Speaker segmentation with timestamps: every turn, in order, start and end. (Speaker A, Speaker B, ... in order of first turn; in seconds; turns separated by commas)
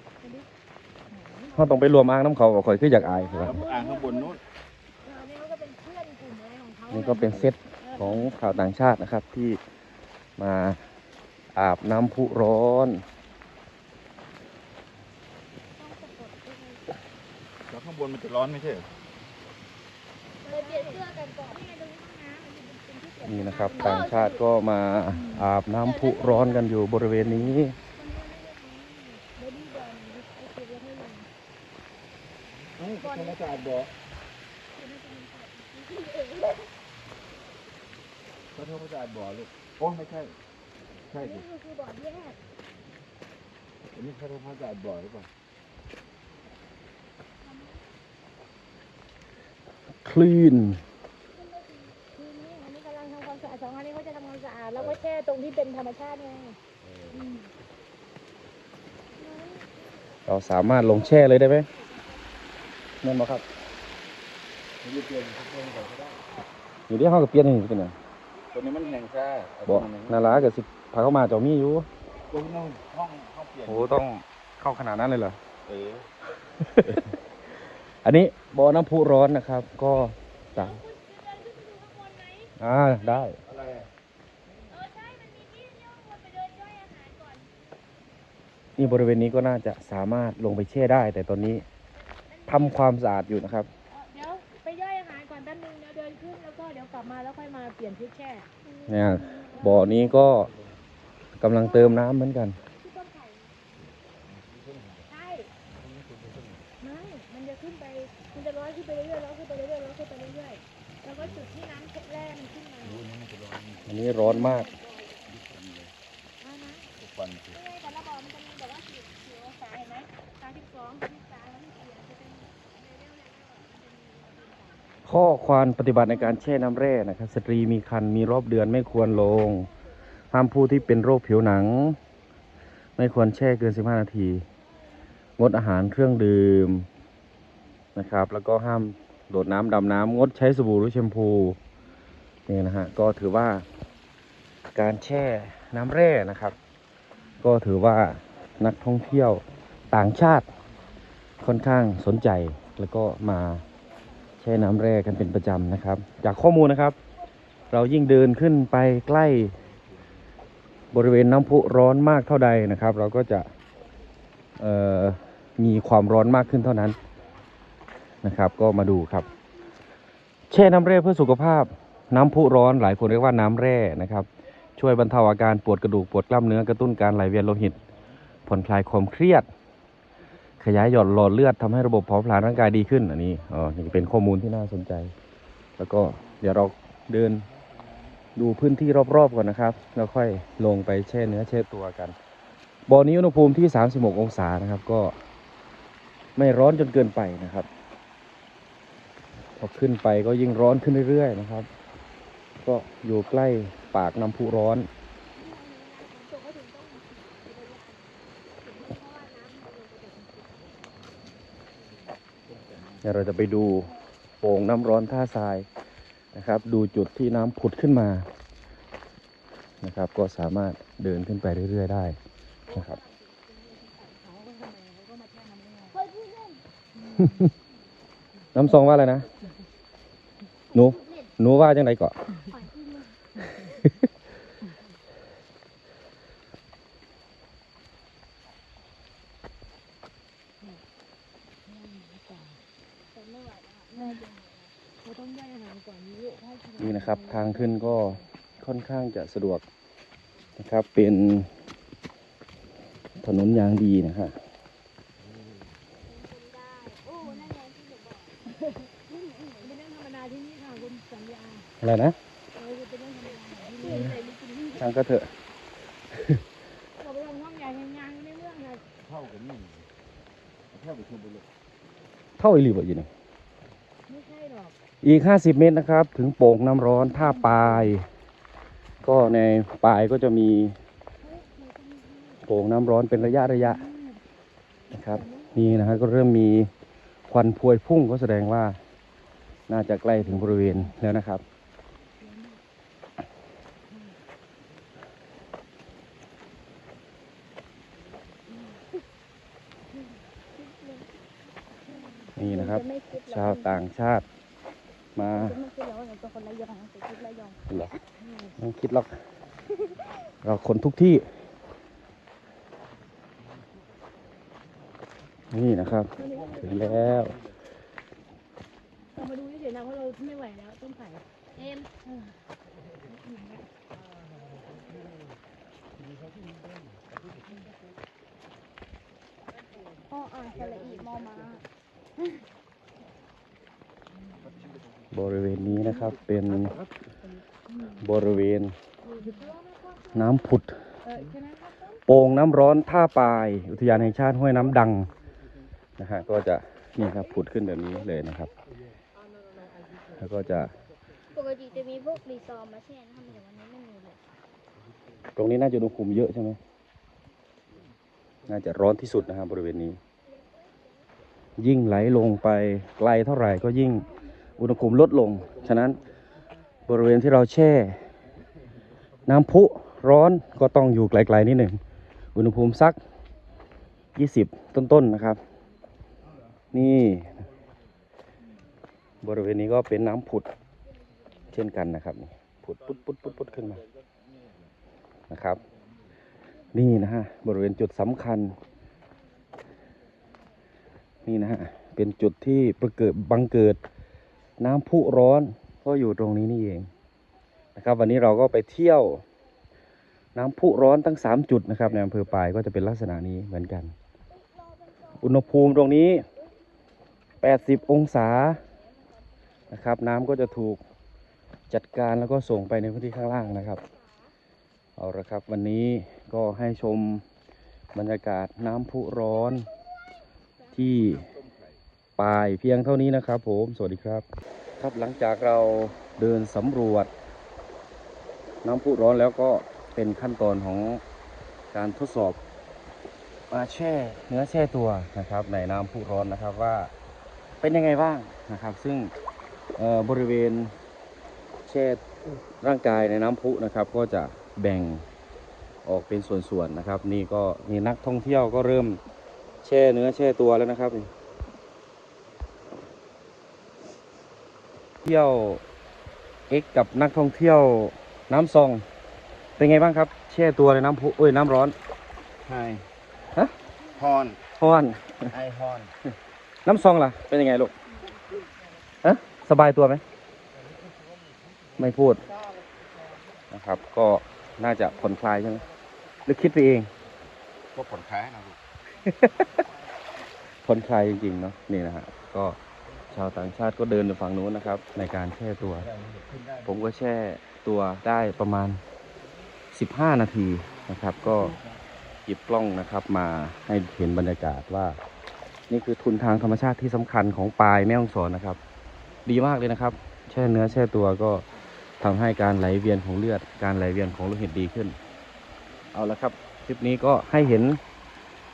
Speaker A: 1.1-1.6, Speaker B: 1.5-3.6, Speaker A: 3.0-4.3, Speaker C: 3.4-4.4, Speaker A: 5.0-8.7, Speaker B: 6.9-9.6, Speaker B: 10.4-10.8, Speaker B: 11.5-13.0, Speaker D: 15.8-16.8, Speaker C: 17.7-18.9, Speaker A: 20.4-24.2, Speaker D: 20.5-21.6, Speaker B: 23.2-27.8, Speaker D: 23.7-24.4, Speaker A: 25.1-25.5, Speaker D: 25.8-26.6, Speaker A: 27.2-28.4, Speaker D: 28.0-31.3, Speaker A: 28.9-30.0, Speaker C: 32.8-33.9, Speaker D: 33.0-33.8, Speaker D: 34.8-36.7, Speaker C: 38.5-40.4, Speaker C: 41.1-41.5, Speaker D: 41.2-42.4, Speaker C: 43.9-45.3, Speaker D: 47.5-47.8, Speaker B: 50.0-50.8, Speaker D: 51.4-52.0, Speaker A: 52.1-56.6, Speaker C: 56.8-57.2, Speaker A: 57.1-57.5, Speaker B: 60.3-61.7, Speaker A: 60.6-62.1, Speaker B: 63.0-63.4, Speaker C: 64.8-66.2, Speaker B: 66.9-67.9, Speaker C: 68.5-70.5, Speaker B: 69.7-71.9, Speaker C: 72.3-74.0, Speaker B: 73.7-75.4, Speaker C: 75.7-76.1, Speaker B: 76.6-77.0, Speaker B: 78.0-80.8, Speaker A: 80.5-82.5, Speaker B: 82.6-83.4, Speaker C: 83.5-83.9, Speaker A: 84.7-87.5, Speaker B: 88.8-91.6, Speaker B: 92.5-93.7, Speaker A: 93.9-98.5, Speaker D: 98.7-99.9, Speaker B: 98.9-100.5, Speaker B: 101.4-102.6, Speaker A: 101.6-102.0, Speaker A: 102.7-103.5, Speaker C: 104.0-105.0, Speaker A: 105.1-105.5, Speaker C: 105.7-106.6, Speaker A: 106.8-113.0, Speaker C: 112.8-114.0, Speaker B: 113.9-114.7, Speaker A: 114.2-114.8, Speaker C: 115.2-115.9, Speaker A: 116.4-116.9, Speaker C: 117.0-117.6, Speaker A: 117.5-125.0, Speaker B: 125.0-129.7, Speaker B: 130.3-132.0, Speaker B: 133.0-134.4, Speaker B: 135.4-136.9, Speaker B: 138.0-141.6, Speaker B: 142.5-143.6, Speaker B: 144.7-146.6, Speaker B: 147.4-150.5, Speaker B: 151.4-153.6, Speaker B: 154.4-157.0, Speaker B: 157.7-159.6, Speaker B: 160.9-163.5, Speaker B: 164.6-167.0, Speaker B: 168.2-169.3, Speaker B: 170.5-177.8, Speaker B: 178.5-179.5, Speaker B: 180.6-185.1, Speaker B: 185.8-187.5, Speaker B: 188.3-192.2, Speaker B: 192.9-195.1, Speaker B: 196.4-197.7, Speaker B: 199.6-201.7, Speaker B: 202.7-204.9, Speaker D: 205.4-208.0, Speaker D: 208.7-210.3, Speaker C: 212.4-213.0, Speaker B: 213.0-213.9, Speaker B: 214.4-215.7, Speaker B: 216.3-218.2, Speaker B: 219.8-222.2, Speaker A: 222.7-226.0, Speaker B: 222.7-223.0, Speaker D: 225.9-226.6, Speaker A: 226.9-227.5, Speaker B: 228.5-229.3, Speaker D: 230.7-231.3, Speaker B: 230.7-232.2, Speaker D: 232.4-233.2, Speaker A: 241.7-242.6, Speaker D: 243.1-244.7, Speaker A: 244.0-244.2, Speaker A: 245.0-248.3, Speaker B: 246.8-249.7, Speaker B: 250.6-251.5, Speaker B: 253.2-254.3, Speaker D: 256.0-258.4, Speaker D: 259.0-259.8, Speaker A: 259.6-261.7, Speaker B: 261.8-262.2, Speaker A: 262.6-264.2, Speaker D: 263.4-265.0, Speaker B: 264.8-265.3, Speaker B: 266.1-266.4, Speaker A: 267.0-268.9, Speaker C: 269.0-269.9, Speaker C: 270.7-271.5, Speaker B: 272.4-273.1, Speaker A: 274.1-274.8, Speaker B: 275.0-278.1, Speaker A: 277.1-277.9, Speaker B: 279.0-280.8, Speaker A: 281.2-282.4, Speaker B: 282.4-283.8, Speaker A: 283.4-284.2, Speaker B: 284.9-286.7, Speaker A: 285.0-285.9, Speaker B: 287.3-288.8, Speaker B: 289.7-291.4, Speaker A: 290.1-290.9, Speaker A: 292.2-292.6, Speaker D: 300.5-301.1, Speaker A: 302.0-302.4, Speaker D: 302.3-303.8, Speaker B: 302.4-304.2, Speaker B: 305.1-305.6, Speaker D: 305.2-308.0, Speaker A: 308.2-308.5, Speaker B: 308.6-309.1, Speaker D: 309.8-310.0, Speaker B: 310.4-311.2, Speaker B: 315.5-317.4, Speaker A: 316.2-317.2, Speaker A: 319.1-322.2, Speaker A: 323.2-323.6, Speaker D: 330.1-331.6, Speaker A: 330.1-331.6, Speaker B: 335.1-336.8, Speaker A: 337.7-338.0, Speaker B: 338.0-338.8, Speaker A: 339.1-340.2, Speaker B: 340.1-340.8, Speaker A: 341.0-342.0, Speaker B: 342.1-345.1, Speaker B: 346.0-348.5, Speaker B: 350.1-350.7, Speaker D: 351.3-354.2, Speaker B: 355.4-356.6, Speaker B: 358.5-360.0, Speaker B: 361.6-364.1, Speaker B: 364.6-366.0, Speaker B: 366.9-368.0, Speaker B: 369.2-371.8, Speaker B: 372.4-373.0, Speaker B: 374.1-375.4, Speaker B: 376.7-377.4, Speaker B: 379.2-380.5, Speaker B: 381.5-383.8, Speaker B: 385.3-385.6, Speaker B: 386.7-388.6, Speaker B: 391.2-393.8, Speaker B: 394.6-396.9, Speaker B: 397.8-399.2, Speaker B: 400.4-403.9, Speaker D: 404.7-405.0, Speaker B: 405.2-406.2, Speaker B: 407.4-408.6, Speaker B: 409.7-410.8, Speaker B: 411.7-413.8, Speaker B: 415.0-417.2, Speaker B: 417.9-419.7, Speaker B: 420.7-421.2, Speaker C: 421.0-421.8, Speaker B: 422.2-424.2, Speaker B: 424.8-427.1, Speaker B: 428.6-431.0, Speaker B: 431.7-432.4, Speaker B: 433.5-436.9, Speaker B: 437.6-439.1, Speaker B: 439.8-440.7, Speaker B: 441.6-445.1, Speaker B: 445.9-449.0, Speaker B: 449.6-451.1, Speaker B: 455.0-455.6, Speaker B: 456.5-458.9, Speaker B: 459.6-461.8, Speaker C: 462.4-462.9, Speaker C: 463.9-464.4, Speaker B: 464.6-465.3, Speaker C: 465.2-465.9, Speaker B: 466.6-467.7, Speaker B: 469.0-470.0, Speaker B: 471.8-472.3, Speaker B: 473.5-475.6, Speaker B: 476.2-476.9, Speaker C: 477.7-478.6, Speaker B: 479.1-479.4, Speaker B: 480.6-482.6, Speaker B: 483.1-485.9, Speaker C: 485.9-486.8, Speaker B: 486.6-488.8, Speaker B: 489.7-491.6, Speaker B: 492.3-495.0, Speaker B: 495.7-498.6, Speaker B: 499.2-501.4, Speaker B: 502.0-505.0, Speaker B: 505.9-507.8